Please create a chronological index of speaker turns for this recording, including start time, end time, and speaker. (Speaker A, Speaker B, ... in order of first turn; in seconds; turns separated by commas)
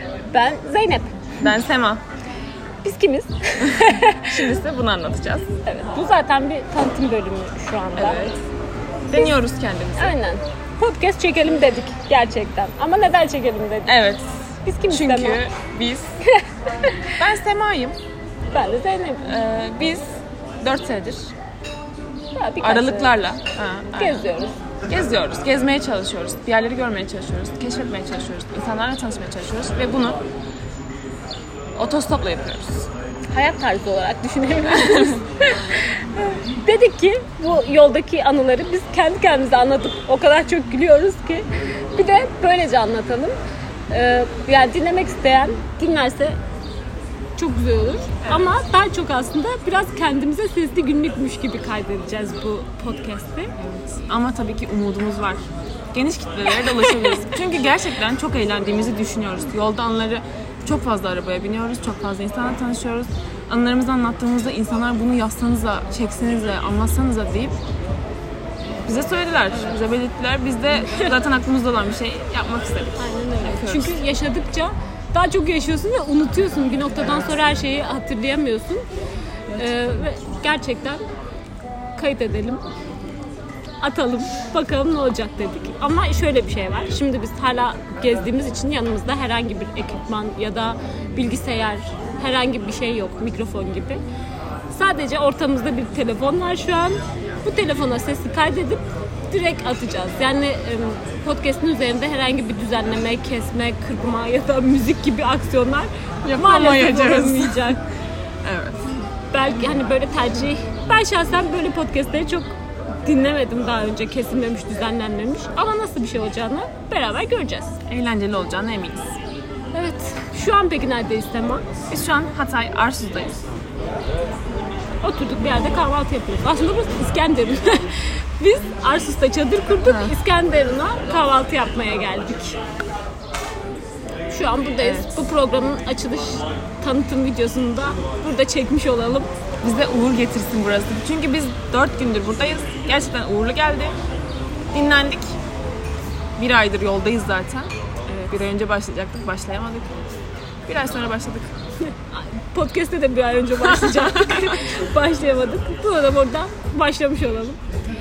Speaker A: 0.3-1.1, Speaker B: 1.4-2.0, Speaker A: 2.8-4.3, Speaker B: 3.6-5.5, Speaker A: 5.7-8.3, Speaker B: 8.0-8.3, Speaker B: 9.1-10.1, Speaker A: 10.0-13.9, Speaker B: 13.9-14.2, Speaker A: 14.7-15.4, Speaker B: 14.9-16.1, Speaker A: 16.3-17.1, Speaker B: 17.1-18.0, Speaker A: 18.5-19.3, Speaker B: 19.2-20.0, Speaker B: 20.6-21.3, Speaker A: 22.3-23.1, Speaker B: 22.6-24.2, Speaker A: 24.0-24.5, Speaker B: 24.9-30.2, Speaker B: 31.8-32.9, Speaker A: 33.3-43.3, Speaker A: 43.9-46.4, Speaker A: 47.4-53.5, Speaker B: 48.2-48.5, Speaker B: 53.6-67.6, Speaker B: 68.8-74.0, Speaker A: 73.0-78.8, Speaker A: 79.5-81.0, Speaker A: 82.0-82.6, Speaker A: 83.8-94.0, Speaker A: 94.7-107.8, Speaker B: 106.2-107.8, Speaker B: 108.4-108.9, Speaker A: 109.3-112.5, Speaker A: 113.0-117.8, Speaker B: 117.9-119.1, Speaker A: 119.7-121.6, Speaker B: 121.9-123.4, Speaker A: 125.0-132.6, Speaker B: 129.8-130.1, Speaker A: 134.3-139.3, Speaker B: 134.8-135.1, Speaker B: 139.6-143.9, Speaker B: 144.7-145.3, Speaker B: 146.4-149.9, Speaker B: 150.7-151.5, Speaker A: 152.1-157.6, Speaker B: 153.7-154.6